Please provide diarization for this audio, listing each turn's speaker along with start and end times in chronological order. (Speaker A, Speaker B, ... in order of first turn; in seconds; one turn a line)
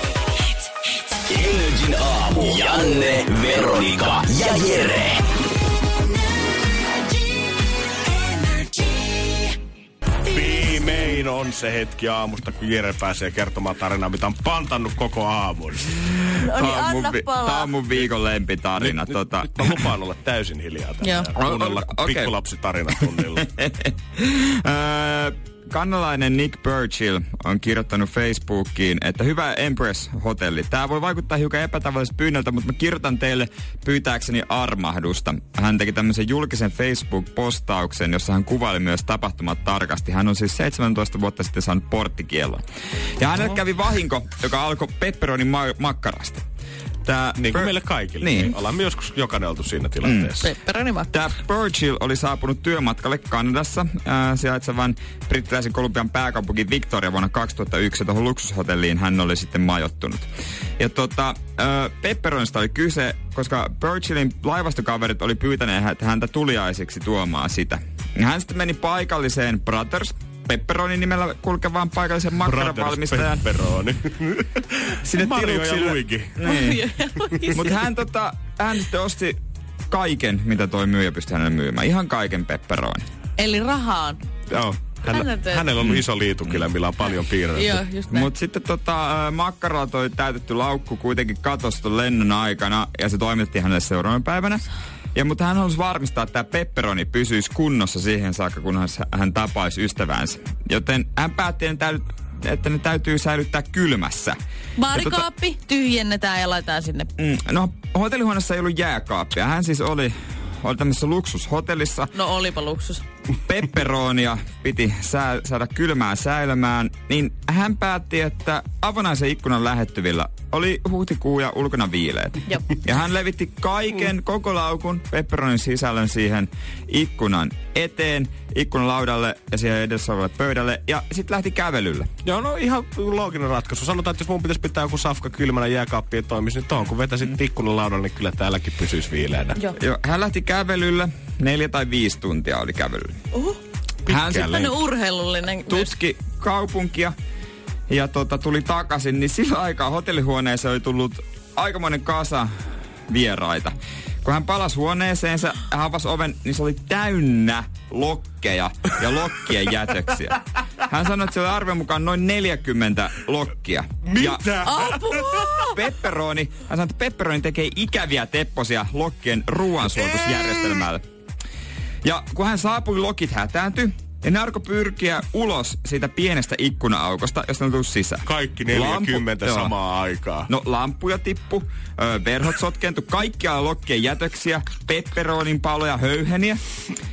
Speaker A: 1.3-5.2
Speaker B: 10.3-16.0
Speaker C: 16.0-19.8
Speaker D: 16.4-17.7
Speaker B: 18.8-23.5
Speaker D: 21.0-21.3
Speaker C: 21.4-22.3
Speaker C: 23.5-42.6
Speaker C: 43.2-46.4
Speaker C: 47.0-48.5
Speaker B: 47.4-50.5
Speaker C: 50.0-50.3
Speaker D: 50.4-51.1
Speaker C: 51.1-60.3
Speaker C: 60.8-73.4
Speaker B: 72.4-76.5
Speaker C: 75.0-76.8
Speaker D: 76.4-77.8
Speaker C: 77.5-79.4
Speaker C: 79.9-83.0
Speaker D: 83.4-84.2
Speaker B: 84.5-87.9
Speaker D: 85.1-85.7
Speaker C: 85.8-86.0
Speaker D: 87.5-88.3
Speaker C: 88.1-104.4
Speaker D: 104.8-107.1
Speaker C: 104.9-105.3
Speaker C: 107.2-112.1
Speaker D: 112.1-113.0
Speaker C: 113.5-132.1
Speaker B: 132.2-139.6
Speaker C: 139.8-143.2
Speaker B: 144.1-144.7
Speaker C: 144.1-144.7
Speaker D: 144.4-145.9
Speaker C: 145.7-147.1
Speaker C: 147.9-152.5
Speaker C: 153.1-164.7
Speaker B: 164.2-164.9
Speaker D: 164.6-165.8
Speaker C: 165.6-171.0
Speaker C: 172.0-179.7
Speaker B: 178.2-180.5
Speaker C: 180.5-186.6